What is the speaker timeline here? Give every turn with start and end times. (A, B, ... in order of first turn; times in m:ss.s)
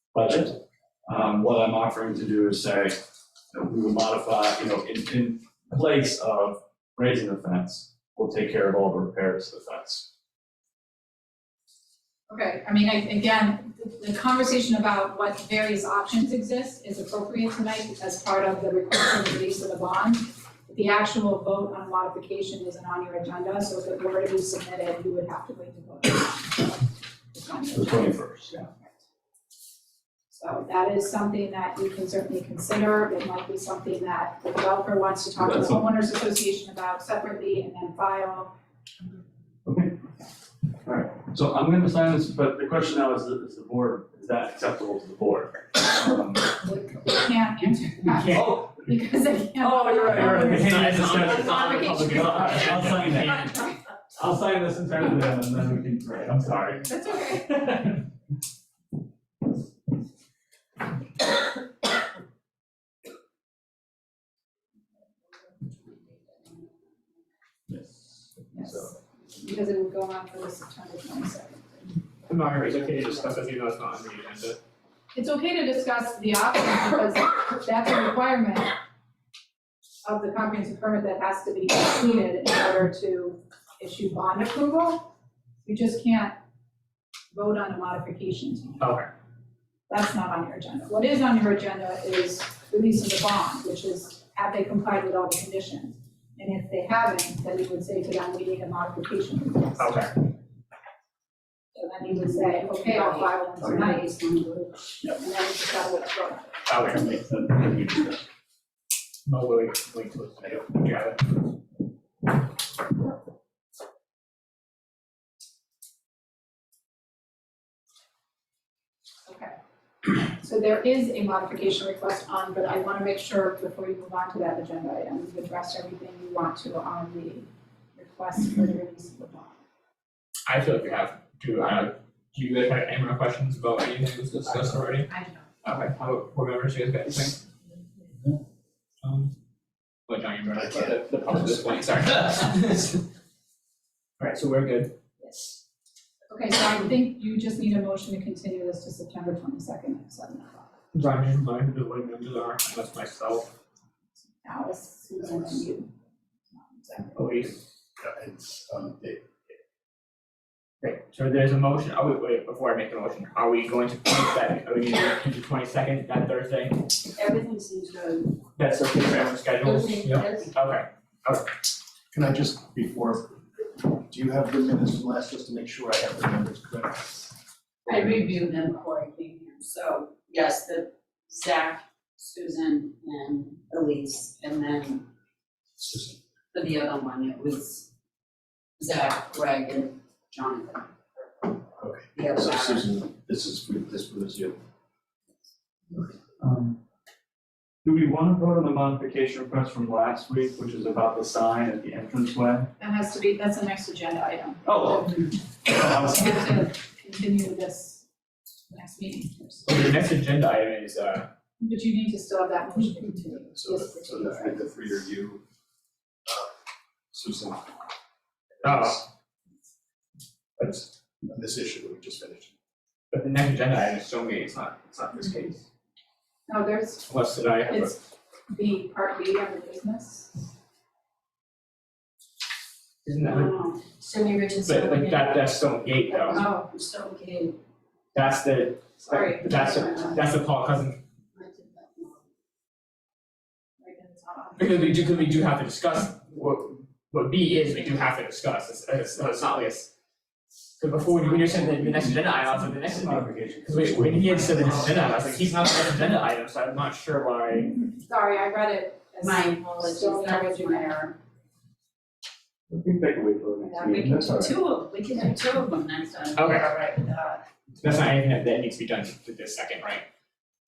0:00.1-0:03.0 A
0:03.5-0:10.1 A
0:12.3-0:28.2 B
0:27.7-0:28.7 A
0:30.3-0:38.5 B
0:35.4-0:35.9 A
0:39.7-0:40.0 A
0:40.8-0:46.5 A
0:46.5-0:53.7 B
0:48.1-0:48.6 C
0:48.3-0:48.7 A
0:49.6-0:53.5 A
0:50.1-0:53.5 C
0:54.2-0:56.9 A
0:56.8-0:57.8 B
1:05.6-1:06.8 D
1:07.7-1:08.9 A
1:08.5-1:12.0 B
1:12.3-1:14.6 C
1:15.1-1:18.7 B
1:20.0-1:25.1 B
1:25.6-1:26.4 B
1:27.3-1:28.9 B
1:28.8-1:29.1 C
1:29.9-1:40.0 B
1:39.8-1:40.1 C
1:41.8-1:44.2 B
1:42.6-1:44.8 D
1:45.0-1:46.8 B
1:46.7-1:47.1 C
1:49.3-1:51.4 C
1:59.3-2:09.6 B
2:10.5-2:15.1 C
2:15.6-2:17.4 C
2:19.0-2:19.3 C
2:20.1-2:23.0 C
2:24.2-2:24.9 C
2:26.3-2:30.7 B
2:30.9-2:33.5 C
2:34.4-2:35.9 B
2:36.5-2:37.2 B
2:37.2-2:37.6 C
2:38.0-2:39.5 E
2:40.8-2:46.9 C
2:47.2-2:48.4 D
2:48.6-2:51.5 C
2:49.6-2:50.5 D
2:52.1-2:57.3 E
2:57.9-3:05.1 D
3:05.8-3:06.1 E
3:06.5-3:07.9 D
3:08.8-3:10.9 D
3:11.8-3:14.6 E
3:12.2-3:12.9 D
3:16.4-3:16.8 A
3:17.8-3:22.7 A
3:22.8-3:28.0 B
3:24.6-3:26.4 A
3:28.7-3:29.7 B
3:29.7-3:31.3 C
3:31.6-3:34.6 B
3:33.6-3:35.4 E
3:37.1-3:37.6 E
3:38.6-3:39.0 C
3:40.6-3:42.5 E
3:43.1-3:45.6 C
3:46.5-3:47.1 B
3:47.1-3:47.9 C
3:47.7-3:50.3 B
3:53.0-3:53.5 C
3:53.3-3:55.4 D
3:54.6-3:56.4 C
3:56.1-3:57.6 D
3:56.3-3:56.7 B
3:58.1-4:01.0 C
3:59.1-3:59.6 B
3:59.7-4:00.2 D
4:01.4-4:02.2 D
4:03.8-4:05.3 B
4:04.6-4:09.9 C
4:10.8-4:17.8 C
4:11.1-4:11.9 D
4:11.9-4:15.0 A
4:18.0-4:21.0 B
4:19.2-4:21.2 D
4:22.7-4:24.6 A
4:23.7-4:24.3 B
4:23.9-4:27.4 D
4:26.4-4:26.7 C
4:27.8-4:30.0 C